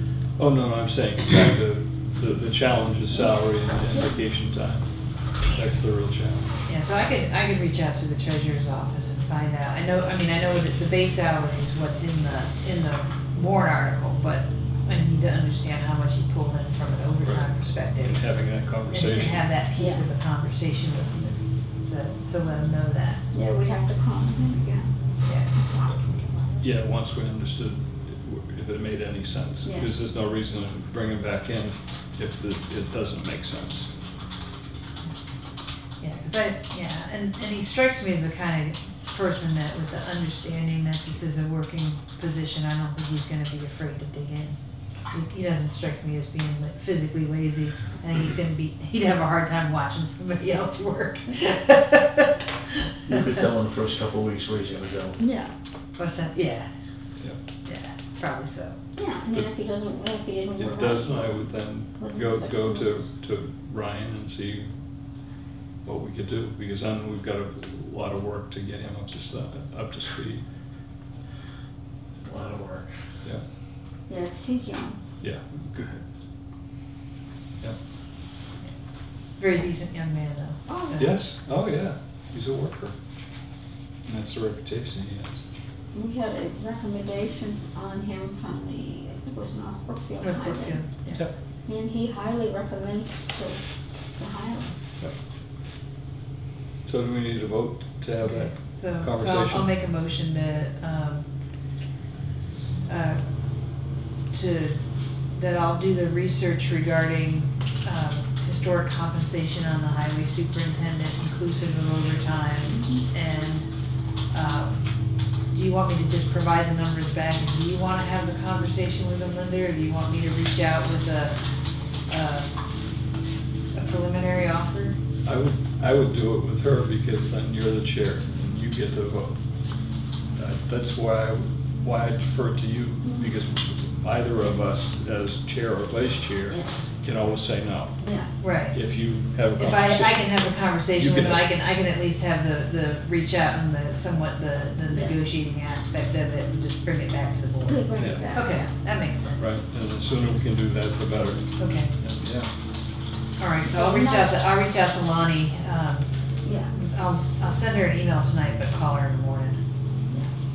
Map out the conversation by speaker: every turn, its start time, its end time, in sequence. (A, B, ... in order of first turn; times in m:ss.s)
0:00.4-0:04.9 A
0:05.5-0:06.6 A
0:06.7-0:18.2 B
0:17.2-0:19.5 A
0:18.9-0:23.2 B
0:19.8-0:20.0 C
0:23.3-0:24.9 C
0:25.2-0:25.5 B
0:25.5-0:26.5 C
0:26.6-0:33.9 A
0:29.6-0:29.9 C
0:36.0-0:44.6 B
0:45.1-0:52.3 B
0:53.1-0:55.2 D
0:55.2-0:55.5 C
0:56.0-0:56.7 B
0:57.6-0:58.8 B
0:59.0-1:01.4 C
1:00.6-1:04.7 A
1:02.0-1:03.0 C
1:05.8-1:10.4 A
1:12.2-1:12.9 D
1:14.1-1:15.0 C
1:15.2-1:16.0 A
1:19.4-1:21.1 B
1:20.7-1:21.0 C
1:21.0-1:22.9 A
1:24.0-1:25.4 A
1:25.9-1:30.8 C
1:30.2-1:31.2 B
1:31.6-1:33.6 C
1:34.2-1:34.7 C
1:36.8-1:39.7 A
1:38.2-1:41.2 B
1:42.9-1:43.2 B
1:44.3-1:44.8 B
1:45.3-1:53.6 B
1:52.7-1:53.0 C
1:54.3-1:54.8 B
1:55.5-2:01.4 B
2:02.1-2:02.5 B
2:03.7-2:05.0 B
2:05.2-2:09.4 A
2:10.4-2:17.9 A
2:18.0-2:18.3 C
2:18.4-2:18.8 B
2:18.7-2:20.3 A
2:19.6-2:29.5 B
2:20.9-2:21.4 A
2:24.9-2:25.1 C
2:27.7-2:28.7 C
2:27.9-2:28.3 A
2:29.4-2:32.5 A
2:31.6-2:31.9 B
2:33.4-2:36.1 B
2:33.7-2:34.3 C
2:36.4-2:36.8 C
2:36.7-2:39.6 B